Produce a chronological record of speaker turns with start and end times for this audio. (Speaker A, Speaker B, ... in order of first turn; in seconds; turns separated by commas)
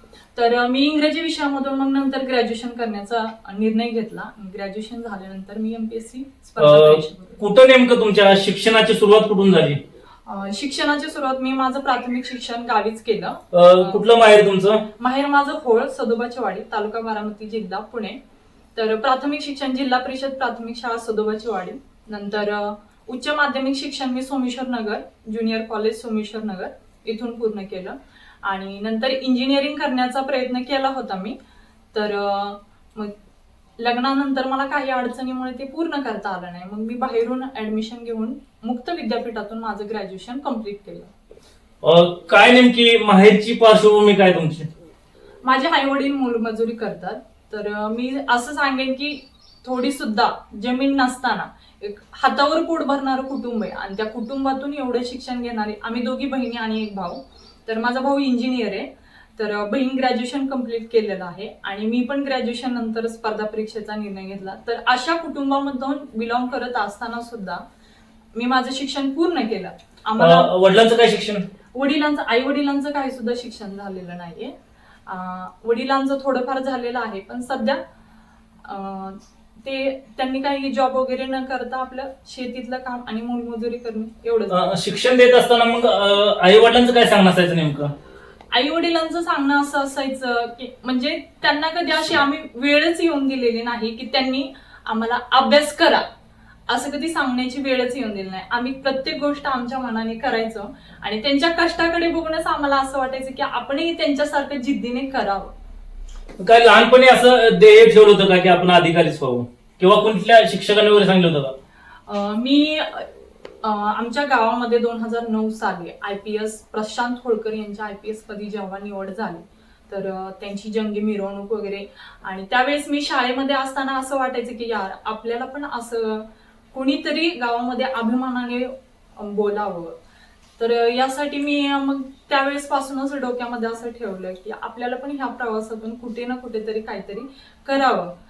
Speaker A: 0.3-7.4, Speaker B: 6.6-9.8, Speaker A: 10.2-14.1, Speaker B: 13.5-14.8, Speaker A: 15.0-18.2, Speaker A: 18.8-31.4, Speaker A: 31.9-33.1, Speaker A: 33.8-41.1, Speaker B: 41.8-44.7, Speaker A: 45.4-67.6, Speaker A: 68.3-70.5, Speaker B: 70.2-71.4, Speaker A: 71.7-74.5, Speaker A: 75.1-77.8, Speaker A: 78.6-84.6, Speaker B: 84.5-87.9, Speaker A: 88.5-96.0, Speaker A: 96.7-105.5, Speaker B: 106.4-111.5, Speaker A: 112.1-113.0, Speaker A: 113.6-129.9, Speaker A: 130.6-138.1